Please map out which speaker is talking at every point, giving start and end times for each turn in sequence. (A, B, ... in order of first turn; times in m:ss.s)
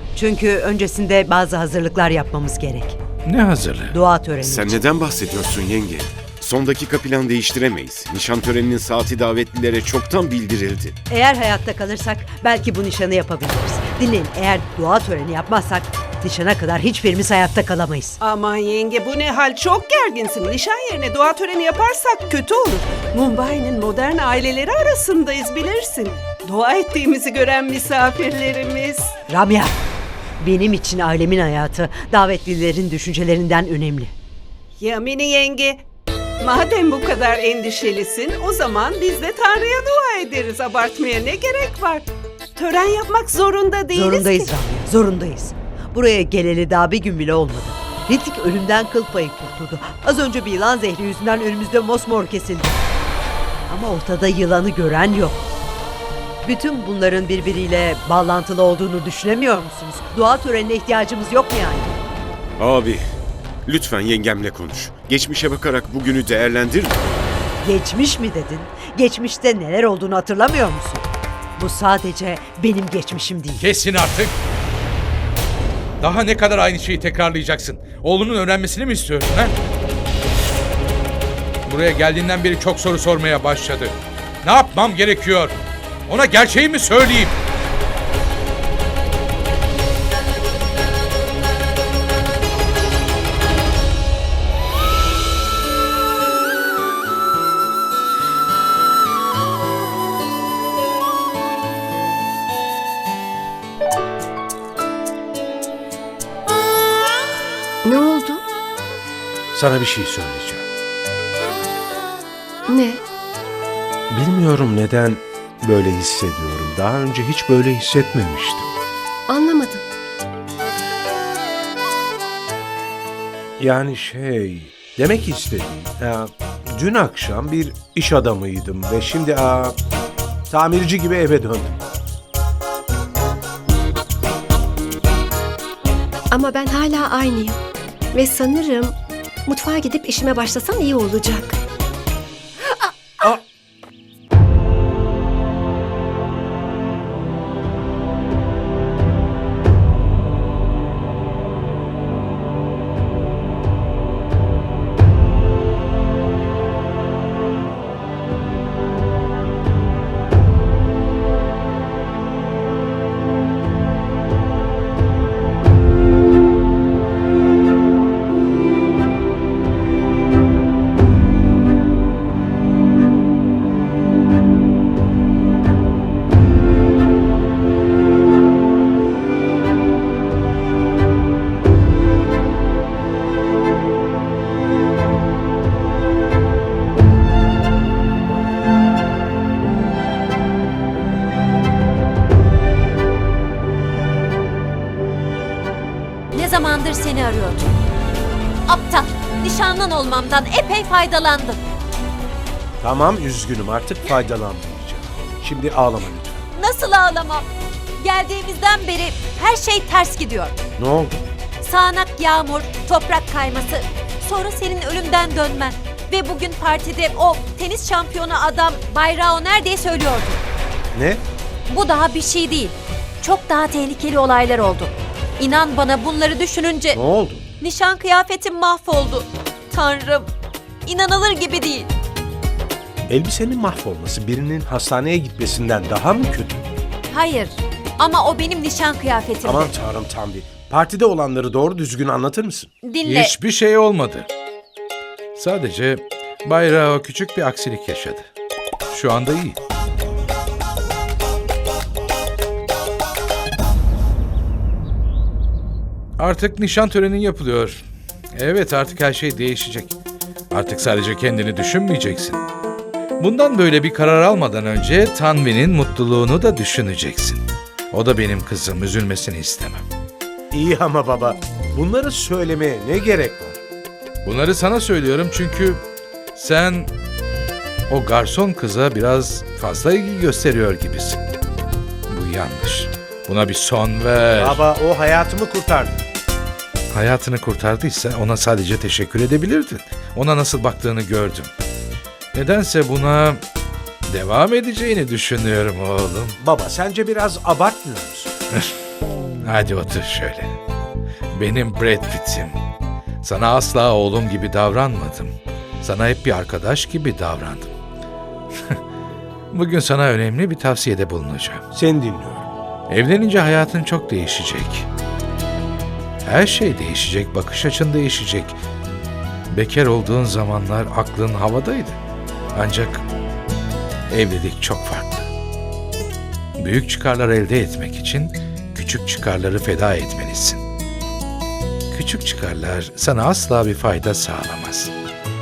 0:00.2-0:03.0 A
0:03.3-0:04.0 B
0:03.9-0:04.8 A
0:04.4-0:10.9 C
0:11.1-0:18.2 A
0:18.2-0:29.1 D
0:29.3-0:29.8 A
0:30.4-0:34.1 A
0:34.8-0:35.8 D
0:36.4-0:44.5 D
0:43.9-0:52.8 A
0:53.7-0:55.4 A
0:56.4-1:01.9 A
1:02.6-1:03.0 C
1:03.7-1:07.0 C
1:07.6-1:13.6 A
1:13.6-1:14.4 B
1:16.0-1:19.5 B
1:21.7-1:25.6 B
1:26.1-1:27.4 B
1:47.8-1:48.4 E
1:49.5-1:50.7 F
1:52.7-1:53.0 E
1:54.1-1:58.7 F
1:59.3-1:59.8 E
2:03.6-2:09.8 F
2:10.5-2:11.8 F
2:16.3-2:17.6 E
2:18.1-2:19.0 E
2:19.5-2:21.6 E
2:22.8-2:23.3 E
3:16.3-3:17.7 G
3:18.7-3:21.6 G
3:22.8-3:26.4 F
3:26.6-3:27.5 G
3:28.0-3:30.6 G
3:30.8-3:31.2 F
3:31.6-3:40.4 G
3:40.9-3:41.2 F
3:41.7-3:47.0 G
3:46.9-3:47.4 F
3:47.6-3:50.3 G
3:50.9-3:51.9 G
3:53.1-3:56.6 F
3:57.1-3:59.7 G
3:59.4-4:02.7 F
4:02.8-4:03.3 G
4:03.0-4:04.3 B
4:05.4-4:08.3 B
4:08.9-4:09.6 B
4:16.2-4:17.8 B
4:18.4-4:20.0 B
4:20.5-4:22.4 B
4:23.2-4:29.8 B
4:30.5-4:33.6 F
4:34.2-4:35.8 B
4:36.4-4:36.9 B
4:37.9-4:41.2 B
4:42.1-4:44.6 B
4:44.4-4:46.0 F
4:46.9-4:51.5 B
4:52.3-4:53.4 B
4:54.1-4:56.4 B
4:56.4-4:58.3 F
4:59.4-5:00.6 B
5:01.4-5:02.6 B
5:03.2-5:07.7 B
5:09.5-5:11.6 B
5:11.7-5:12.5 F
5:12.9-5:14.9 B
5:16.2-5:18.6 B
5:19.5-5:22.0 B
5:22.6-5:23.0 B
5:24.1-5:25.3 B
5:26.6-5:30.6 B
5:31.9-5:34.9 B